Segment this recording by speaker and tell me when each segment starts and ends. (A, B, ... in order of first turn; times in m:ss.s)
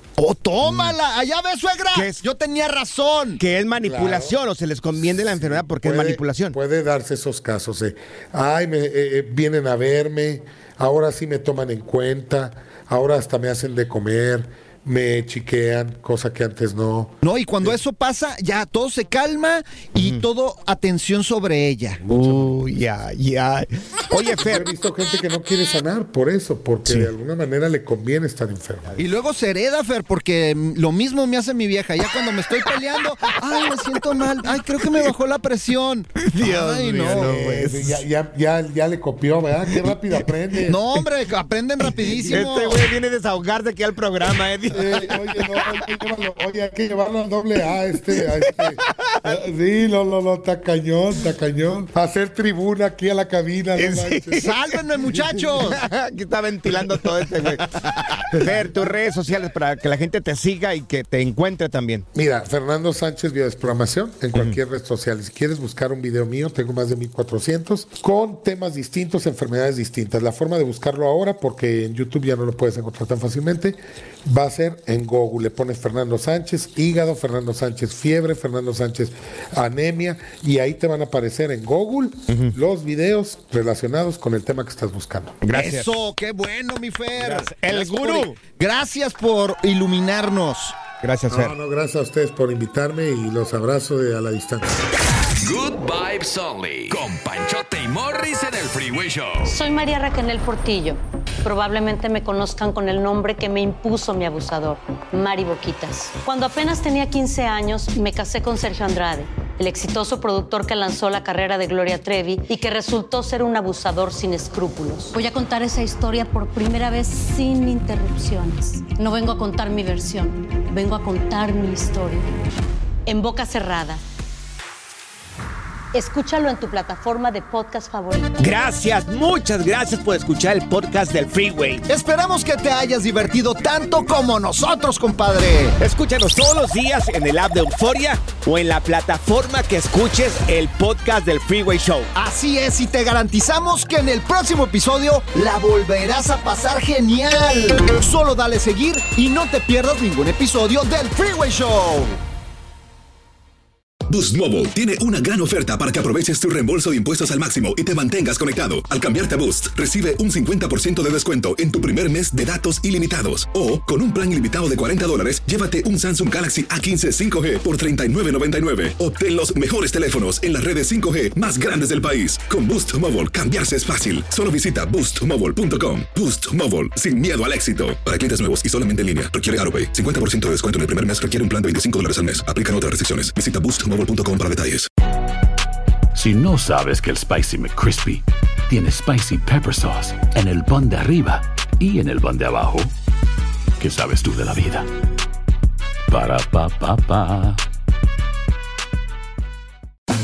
0:00.2-0:03.4 A
0:01.9-0:02.2 B
0:03.4-0:06.6 B
0:03.8-0:04.3 C
0:05.1-0:17.2 C
0:17.2-0:22.0 A
0:20.0-0:20.2 B
0:22.1-0:24.7 B
0:24.4-0:28.9 C
0:29.0-0:37.6 A
0:36.2-0:38.0 B
0:36.8-0:40.8 C
0:40.6-0:42.9 A
0:42.2-0:42.4 C
0:42.3-0:45.4 B
0:44.7-0:54.5 C
0:48.9-0:49.3 B
0:53.8-0:57.7 B
0:54.4-0:55.8 A
0:57.7-0:58.2 A
0:58.3-1:02.0 B
1:02.1-1:25.4 C
1:25.4-1:25.9 B
1:25.5-1:30.8 A
1:27.2-1:28.4 B
1:31.0-1:31.5 B
1:31.3-1:34.7 C
1:35.4-1:39.5 D
1:39.4-2:02.3 E
2:03.0-2:04.0 E
2:05.9-2:08.3 E
2:08.4-2:11.8 B
2:11.9-2:15.8 A
2:15.8-2:22.1 B
2:22.1-2:32.2 A
2:34.1-3:04.9 F
3:06.1-3:12.9 G
3:13.8-3:14.9 G
3:16.1-3:17.6 G